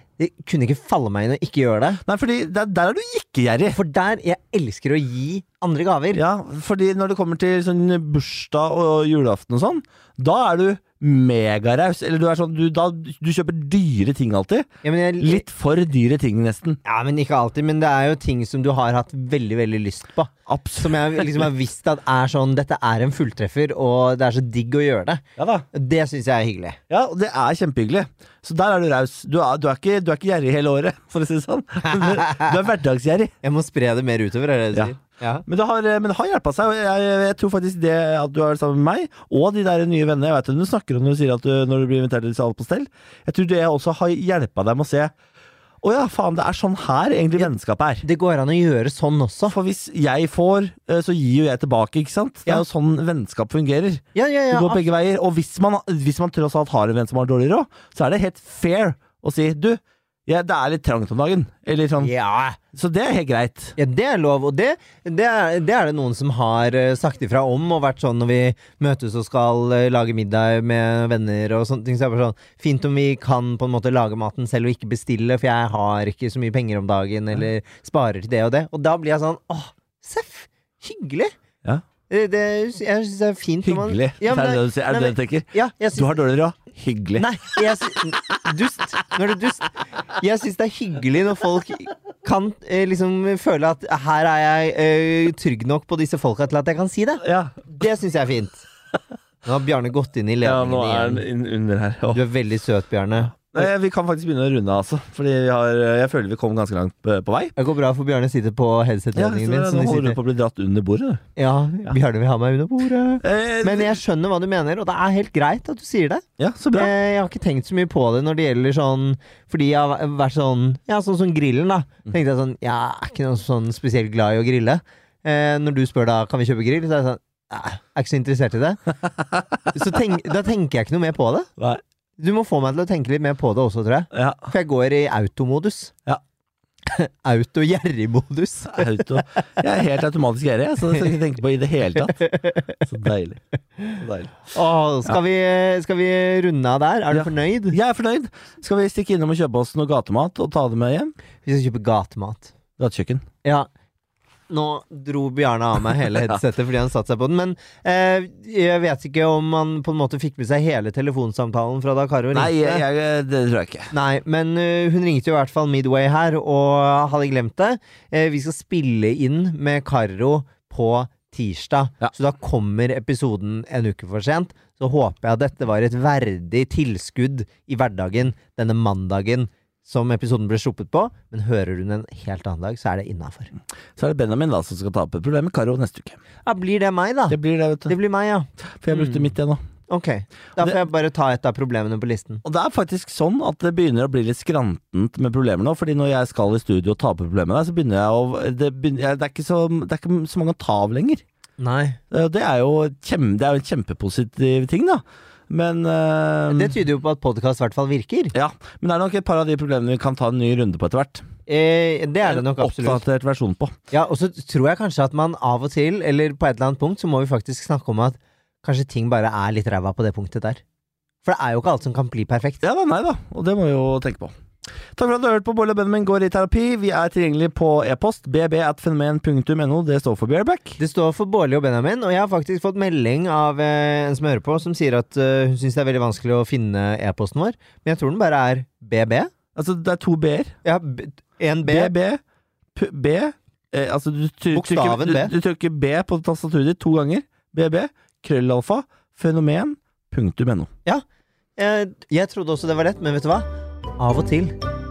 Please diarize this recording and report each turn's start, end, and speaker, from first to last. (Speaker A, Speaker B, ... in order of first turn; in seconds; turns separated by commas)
Speaker A: 0.2-2.0, Speaker B: 2.0-3.8, Speaker A: 3.7-6.2, Speaker B: 6.1-14.7, Speaker A: 14.8-15.4, Speaker B: 15.2-16.8, Speaker A: 16.8-26.8, Speaker B: 20.5-21.5, Speaker B: 25.4-25.7, Speaker B: 26.9-33.3, Speaker A: 31.9-32.6, Speaker A: 33.4-35.5, Speaker B: 35.5-45.1, Speaker B: 45.8-48.0, Speaker A: 48.0-49.5, Speaker B: 49.5-62.1, Speaker A: 54.1-54.9, Speaker A: 62.0-62.6, Speaker B: 62.7-63.8, Speaker A: 63.8-81.3, Speaker A: 82.1-86.2, Speaker B: 83.6-87.3, Speaker A: 87.2-98.7, Speaker B: 97.2-97.5, Speaker A: 99.5-101.2, Speaker B: 100.4-102.2, Speaker A: 102.1-103.6, Speaker B: 103.3-107.5, Speaker A: 107.6-110.2, Speaker B: 109.2-111.2, Speaker A: 111.4-128.8, Speaker B: 113.2-114.0, Speaker B: 116.4-116.9, Speaker B: 129.0-129.7, Speaker A: 129.7-131.5, Speaker A: 132.2-135.9, Speaker B: 134.1-134.5, Speaker A: 136.9-139.0, Speaker B: 138.7-142.2, Speaker A: 142.2-142.7, Speaker B: 142.8-144.4, Speaker A: 144.5-147.8, Speaker B: 147.1-151.1, Speaker A: 151.4-152.5, Speaker B: 152.8-153.2, Speaker A: 153.4-153.7, Speaker A: 154.5-162.8, Speaker B: 162.3-163.9, Speaker A: 163.9-183.5, Speaker B: 184.0-186.2, Speaker A: 186.5-189.3, Speaker B: 187.3-187.9, Speaker B: 188.8-189.6, Speaker A: 189.9-192.4, Speaker B: 192.4-201.2, Speaker A: 201.6-202.0, Speaker B: 202.1-206.8, Speaker A: 206.5-208.3, Speaker B: 208.3-211.2, Speaker A: 211.5-213.0, Speaker B: 212.3-213.8, Speaker A: 213.9-220.6, Speaker A: 221.2-222.6, Speaker B: 222.6-224.3, Speaker B: 224.9-230.8, Speaker A: 230.8-239.3, Speaker B: 239.6-240.5, Speaker A: 240.6-241.9, Speaker B: 241.7-242.2, Speaker B: 242.8-250.7, Speaker A: 244.5-245.3, Speaker A: 251.6-253.5, Speaker A: 254.0-254.6